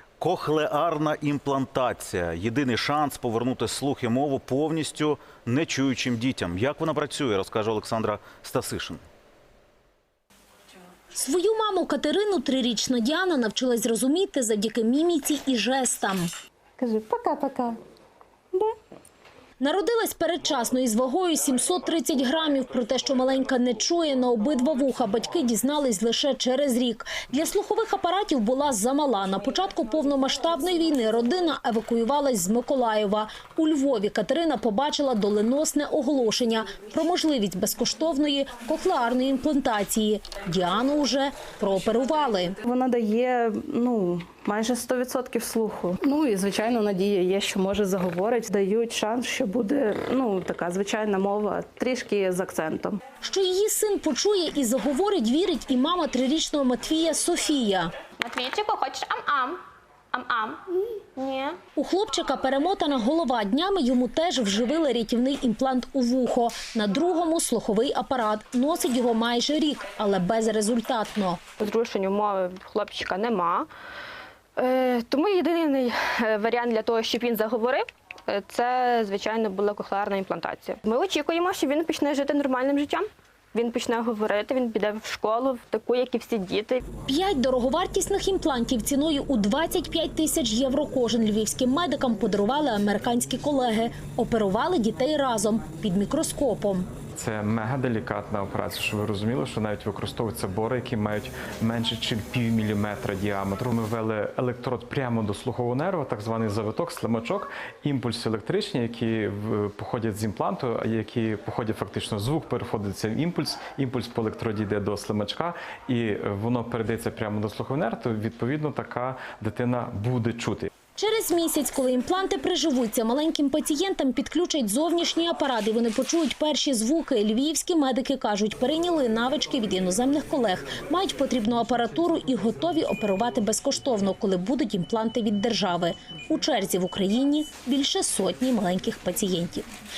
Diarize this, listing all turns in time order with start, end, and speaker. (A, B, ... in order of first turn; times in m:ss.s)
0:00.2-0:09.0 A
0:11.1-0:16.3 B
0:16.8-0:17.8 C
0:19.6-0:42.6 B
0:42.6-0:53.0 C
0:53.2-0:57.9 B
0:58.2-0:59.6 D
1:00.1-1:01.6 D
1:01.8-1:11.4 B
1:11.6-1:13.7 D
1:14.6-1:26.8 D
1:27.1-1:36.9 B
1:37.2-2:00.7 E
2:01.0-2:19.7 B